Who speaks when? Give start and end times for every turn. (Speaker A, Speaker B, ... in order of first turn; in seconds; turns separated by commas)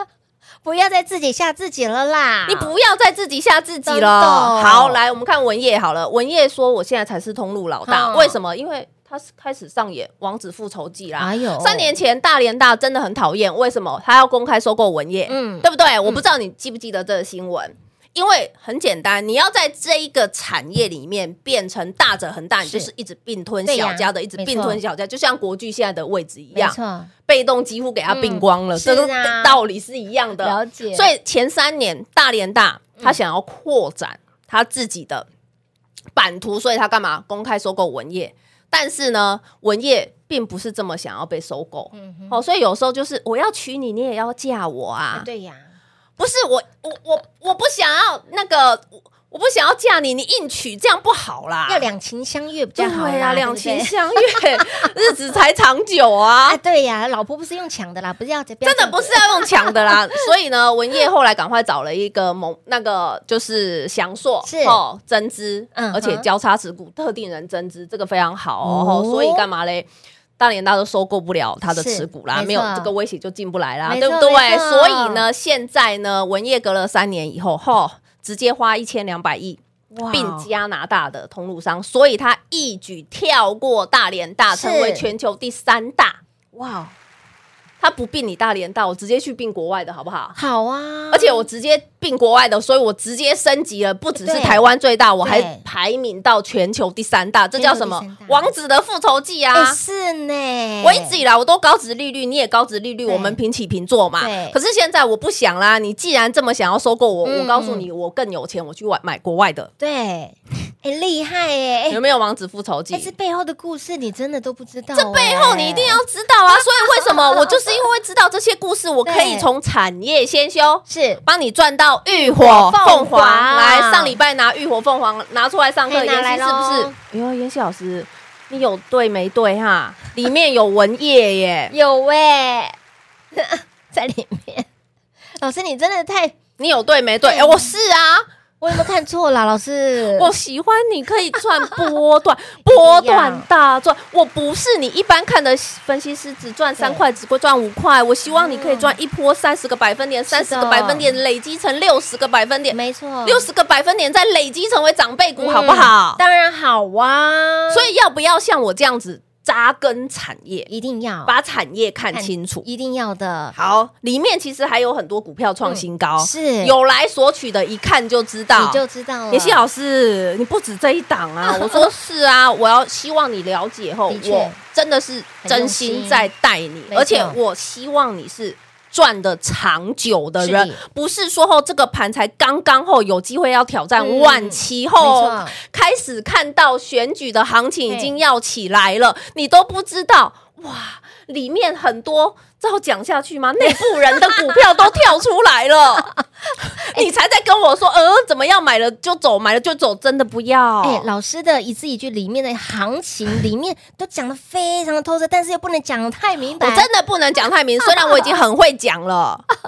Speaker A: 0.6-2.7, Speaker B: 2.5-35.3, Speaker A: 3.9-5.0, Speaker A: 7.9-8.4, Speaker A: 11.2-11.9, Speaker A: 15.3-16.2, Speaker A: 22.6-22.9, Speaker A: 23.6-24.8, Speaker A: 26.5-27.1, Speaker A: 28.1-29.6, Speaker A: 30.4-31.1, Speaker B: 36.1-45.3, Speaker A: 41.9-42.4, Speaker A: 45.1-45.7, Speaker B: 46.2-51.9, Speaker A: 51.7-54.9, Speaker B: 52.8-56.6, Speaker A: 56.5-59.9, Speaker B: 58.6-69.9, Speaker A: 64.4-64.8, Speaker A: 65.7-66.2, Speaker A: 68.6-69.5, Speaker B: 70.4-79.6, Speaker A: 71.7-72.9, Speaker A: 73.8-75.2, Speaker A: 79.9-80.5, Speaker B: 80.1-86.2, Speaker A: 84.5-85.1, Speaker A: 86.5-86.9, Speaker B: 87.8-90.3, Speaker A: 90.3-91.5, Speaker B: 91.1-99.8, Speaker A: 94.2-94.7, Speaker A: 95.2-95.6, Speaker A: 97.5-98.5, Speaker A: 99.5-101.2, Speaker B: 100.8-109.7, Speaker A: 103.0-103.4, Speaker A: 104.2-104.6, Speaker A: 107.2-107.9, Speaker A: 109.8-112.0, Speaker B: 111.9-113.1, Speaker A: 112.9-116.0, Speaker B: 114.9-131.7, Speaker A: 116.5-117.8, Speaker A: 119.0-119.5, Speaker A: 120.9-121.2, Speaker A: 122.2-124.2, Speaker A: 125.9-127.0, Speaker A: 131.7-132.8, Speaker A: 133.3-134.7, Speaker A: 135.4-136.4, Speaker B: 136.6-138.2, Speaker A: 137.2-137.7, Speaker A: 138.6-140.3, Speaker B: 140.1-156.2, Speaker A: 142.6-143.5, Speaker A: 146.8-147.0, Speaker A: 148.3-148.9, Speaker A: 150.3-151.2, Speaker A: 152.7-153.5, Speaker A: 155.4-157.9, Speaker B: 157.7-160.7, Speaker A: 160.7-161.3, Speaker B: 161.2-162.6, Speaker A: 162.1-163.5, Speaker B: 163.5-196.1, Speaker A: 165.6-166.7, Speaker A: 168.5-169.6, Speaker A: 171.4-171.9, Speaker A: 174.1-174.6, Speaker A: 175.4-176.3, Speaker A: 176.9-177.4, Speaker A: 180.4-180.8, Speaker A: 184.0-185.6, Speaker A: 187.9-188.1, Speaker A: 193.7-194.6, Speaker B: 196.7-201.1, Speaker A: 200.8-206.9, Speaker B: 206.6-209.4, Speaker A: 207.8-208.4